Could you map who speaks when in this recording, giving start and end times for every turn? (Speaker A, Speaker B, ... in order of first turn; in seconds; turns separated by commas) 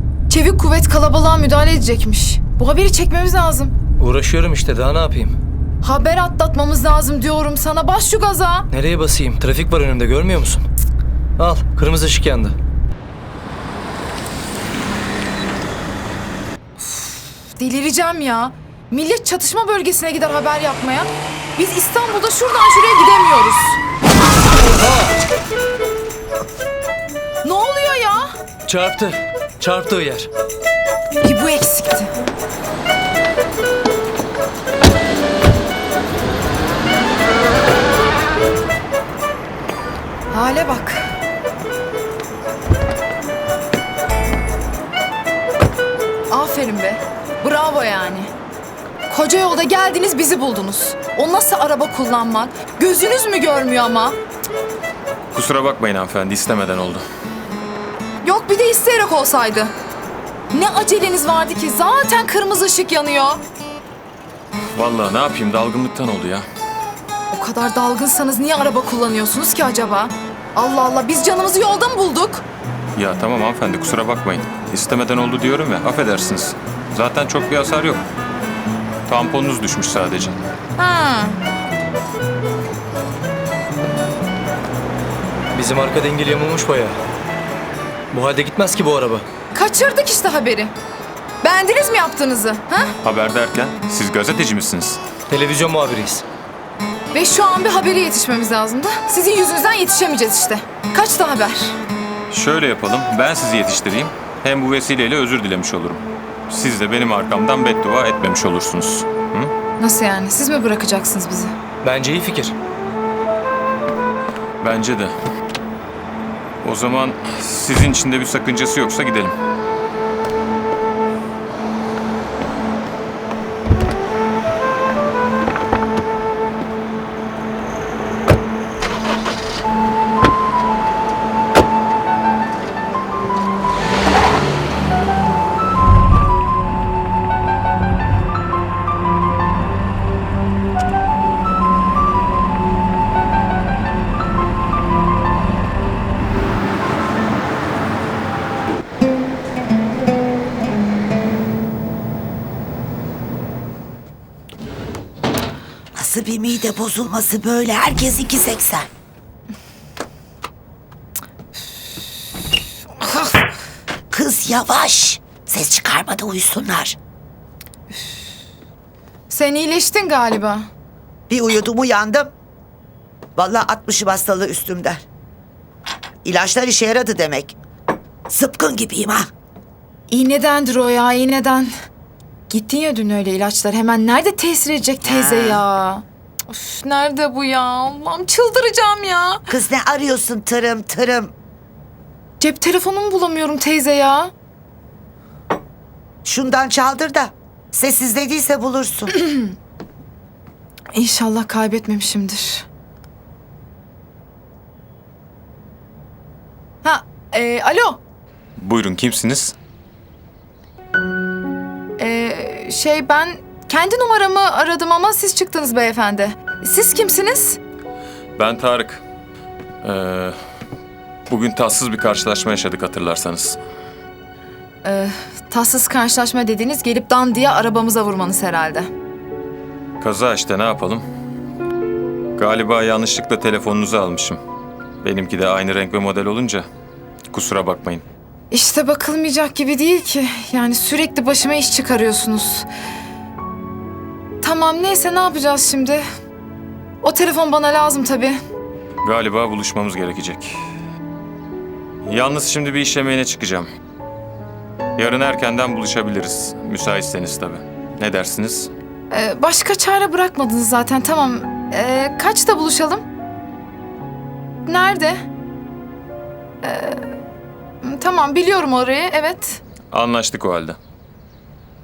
Speaker A: 0.3-3.7, Speaker B: 4.0-5.3, Speaker A: 5.8-8.7, Speaker B: 8.7-10.7, Speaker B: 11.4-12.6, Speaker A: 16.8-23.8, Speaker A: 27.4-28.4, Speaker B: 28.7-30.3, Speaker A: 31.2-32.1, Speaker A: 40.3-41.1, Speaker A: 46.3-48.3, Speaker A: 49.1-54.2, Speaker C: 55.3-57.0, Speaker A: 58.2-59.7, Speaker A: 60.5-63.4, Speaker C: 64.8-66.5, Speaker A: 67.3-72.5, Speaker C: 73.0-78.0, Speaker C: 79.1-80.4, Speaker A: 80.8-81.4, Speaker B: 85.5-87.0, Speaker B: 88.1-89.3, Speaker A: 89.5-90.7, Speaker A: 91.4-92.9, Speaker C: 93.0-95.0, Speaker B: 95.3-96.2, Speaker A: 97.1-101.8, Speaker C: 102.3-109.5, Speaker A: 109.8-111.5, Speaker B: 111.8-112.5, Speaker C: 114.6-115.2, Speaker C: 116.6-119.3, Speaker D: 155.9-158.9, Speaker D: 164.1-167.0, Speaker A: 169.3-170.7, Speaker D: 171.3-172.3, Speaker D: 173.4-175.1, Speaker D: 176.2-177.6, Speaker D: 178.3-179.3, Speaker A: 180.1-181.7, Speaker A: 182.5-189.4, Speaker D: 185.0-185.6, Speaker D: 189.5-191.3, Speaker A: 192.4-194.3, Speaker D: 196.2-199.1, Speaker A: 199.2-199.5, Speaker A: 200.9-202.7, Speaker A: 206.8-208.0, Speaker C: 208.6-209.6, Speaker A: 212.0-217.6, Speaker C: 218.4-219.0, Speaker C: 219.8-220.4, Speaker C: 221.3-223.6, Speaker A: 224.8-228.9, Speaker C: 230.0-231.0, Speaker C: 232.4-234.4, Speaker C: 235.0-236.7, Speaker C: 237.3-238.0, Speaker A: 238.5-242.7, Speaker A: 244.4-246.0, Speaker A: 247.0-248.4, Speaker C: 249.0-250.6, Speaker C: 252.1-253.7, Speaker C: 255.0-258.7, Speaker A: 259.1-263.1, Speaker A: 264.6-265.2, Speaker A: 266.6-267.1, Speaker A: 267.8-269.6, Speaker C: 269.9-270.8